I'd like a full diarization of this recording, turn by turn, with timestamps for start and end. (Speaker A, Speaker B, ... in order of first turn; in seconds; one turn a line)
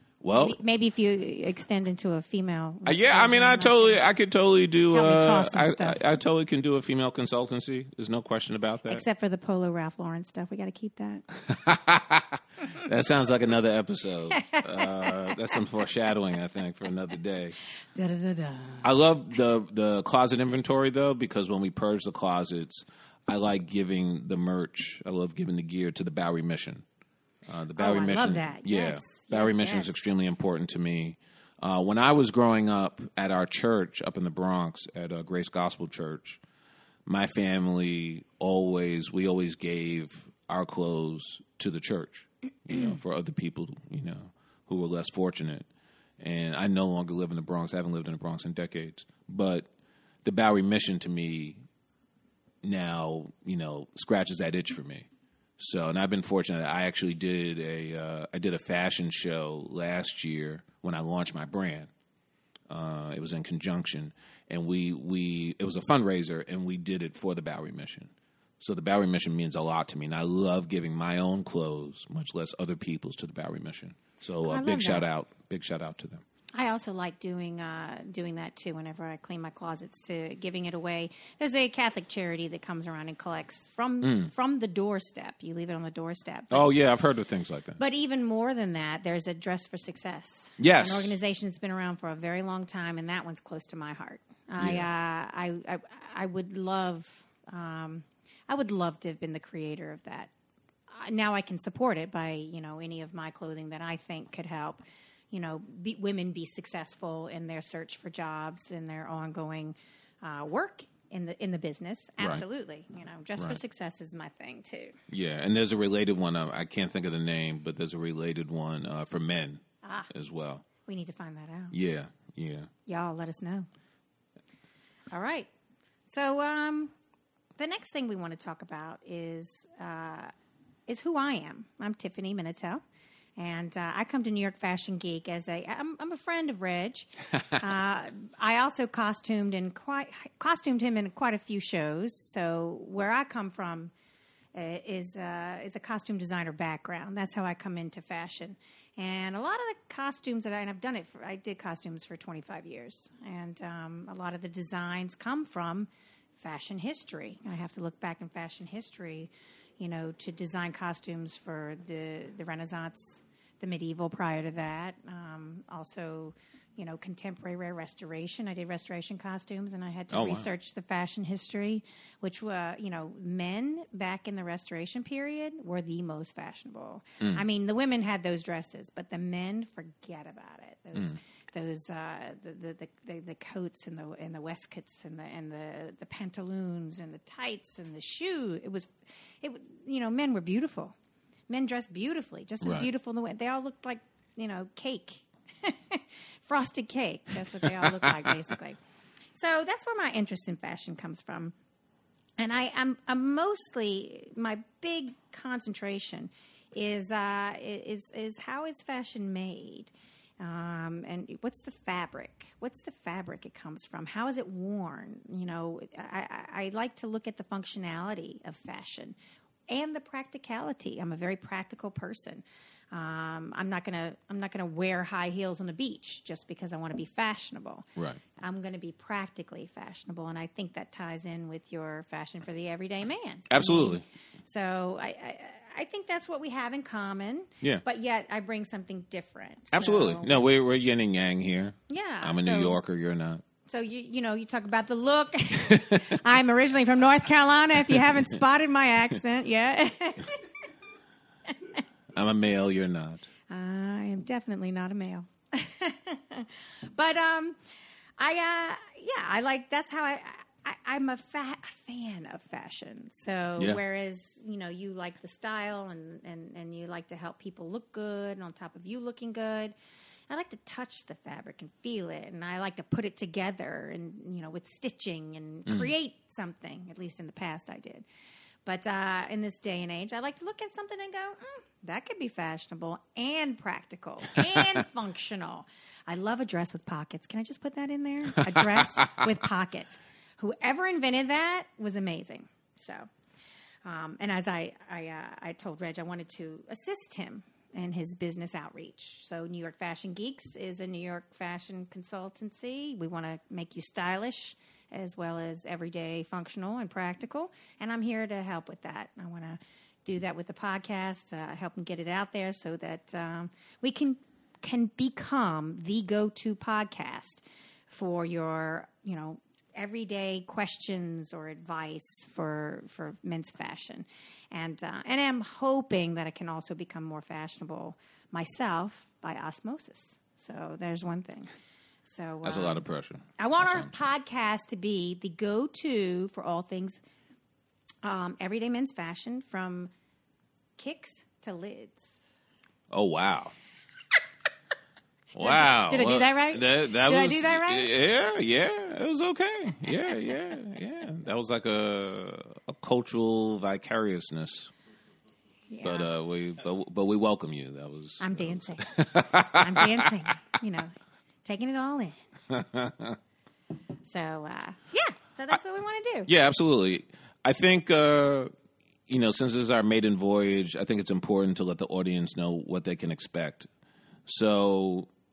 Speaker A: 0.2-0.6
Speaker B: 0.3-4.0
Speaker A: 2.9-9.0
Speaker B: 4.9-6.0
Speaker B: 8.9-11.2
Speaker A: 11.4-17.6
Speaker B: 14.4-15.6
Speaker B: 17.9-18.9
Speaker A: 18.8-26.8
Speaker A: 27.5-36.4
Speaker B: 27.8-29.9
Speaker A: 37.0-45.7
Speaker A: 46.2-49.7
Speaker A: 50.2-51.6
Speaker A: 52.6-55.1
Speaker A: 55.6-61.9
Speaker A: 62.7-76.2
Speaker B: 74.4-75.0
Speaker B: 76.5-86.7
Speaker A: 84.0-84.3
Speaker A: 86.5-87.8
Speaker B: 87.8-100.3
Speaker A: 90.6-91.1
Speaker A: 94.6-94.9
Speaker B: 100.9-115.0
Speaker A: 115.1-120.6
Speaker B: 119.8-120.1
Speaker B: 120.8-121.7
Speaker A: 121.7-122.7
Speaker B: 122.9-123.7
Speaker B: 125.1-125.5
Speaker B: 126.1-126.9
Speaker B: 127.6-130.3
Speaker B: 130.9-132.8
Speaker B: 133.4-143.9
Speaker B: 144.5-190.9
Speaker A: 170.1-170.5
Speaker B: 191.5-198.8
Speaker A: 192.6-192.9
Speaker A: 197.6-198.5
Speaker B: 199.3-201.5
Speaker B: 202.4-219.2
Speaker B: 219.7-240.4
Speaker A: 227.9-228.2
Speaker A: 233.5-234.0
Speaker A: 239.7-243.4
Speaker B: 241.9-242.8
Speaker B: 243.7-250.4
Speaker A: 245.7-246.2
Speaker A: 252.1-253.3
Speaker B: 253.5-257.6
Speaker B: 258.2-269.7
Speaker B: 270.3-278.1
Speaker B: 278.6-293.1
Speaker A: 288.4-289.2
Speaker B: 293.8-331.5
Speaker B: 332.1-332.8
Speaker A: 332.4-333.9
Speaker B: 333.4-337.0
Speaker B: 338.0-339.9
Speaker B: 340.8-342.2
Speaker A: 342.9-343.5
Speaker A: 345.3-354.7
Speaker B: 345.4-347.9
Speaker B: 355.7-356.1
Speaker A: 355.8-360.3
Speaker B: 358.2-360.9
Speaker B: 361.4-362.1
Speaker A: 362.5-363.2
Speaker B: 364.0-366.3
Speaker A: 366.2-368.5
Speaker A: 369.1-373.7
Speaker A: 374.2-375.1